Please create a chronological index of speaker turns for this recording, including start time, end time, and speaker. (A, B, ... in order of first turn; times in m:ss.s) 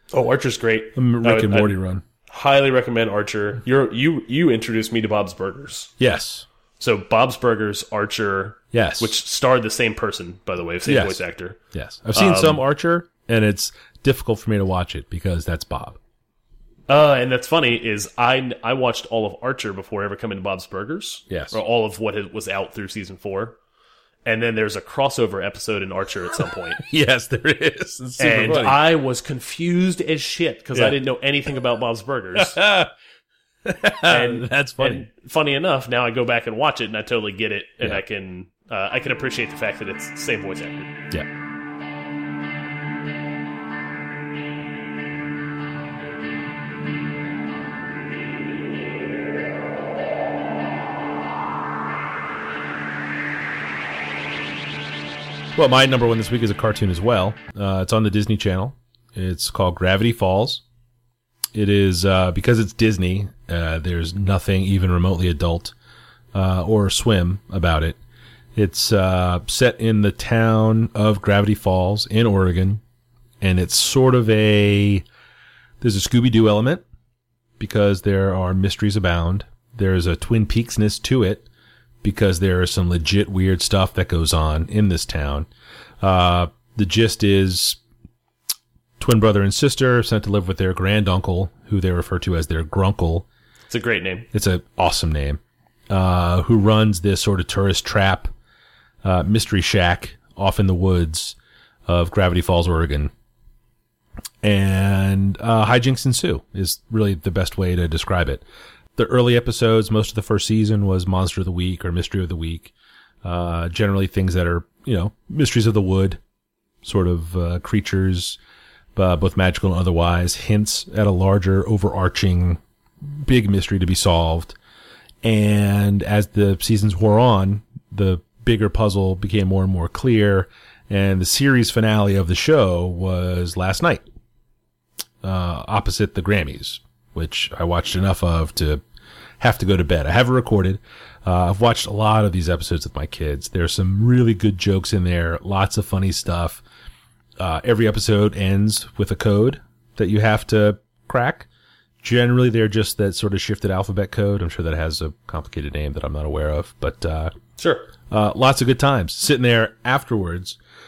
0:00.1-0:05.9 A
0:00.9-0:02.0 B
0:06.0-0:06.4 B
0:06.8-0:11.6 A
0:08.7-0:09.2 B
0:10.8-0:16.0 B
0:12.1-0:12.6 A
0:16.9-0:23.6 A
0:21.3-0:21.6 B
0:24.2-0:26.8 A
0:26.8-0:28.8 B
0:28.2-0:32.6 A
0:32.3-0:32.9 B
0:33.6-0:35.0 B
0:34.0-0:40.9 A
0:55.5-1:00.6 B
1:01.5-1:05.7 B
1:06.3-1:08.0 B
1:08.5-1:12.8 B
1:13.4-1:15.0 B
1:15.8-1:16.8 B
1:17.6-1:21.5 B
1:22.0-1:25.5 B
1:26.0-1:27.8 B
1:29.0-1:33.2 B
1:33.7-1:34.3 A
1:34.3-1:38.3 B
1:39.0-1:41.4 B
1:41.9-1:43.1 B
1:44.4-1:48.4 B
1:48.9-1:56.2 B
1:56.8-1:58.4 B
1:58.9-2:04.6 B
2:05.2-2:14.0 B
2:15.2-2:18.8 B
2:19.4-2:26.6 B
2:27.4-2:31.5 B
2:32.0-2:37.3 B
2:37.6-2:37.9 A
2:38.1-2:40.6 B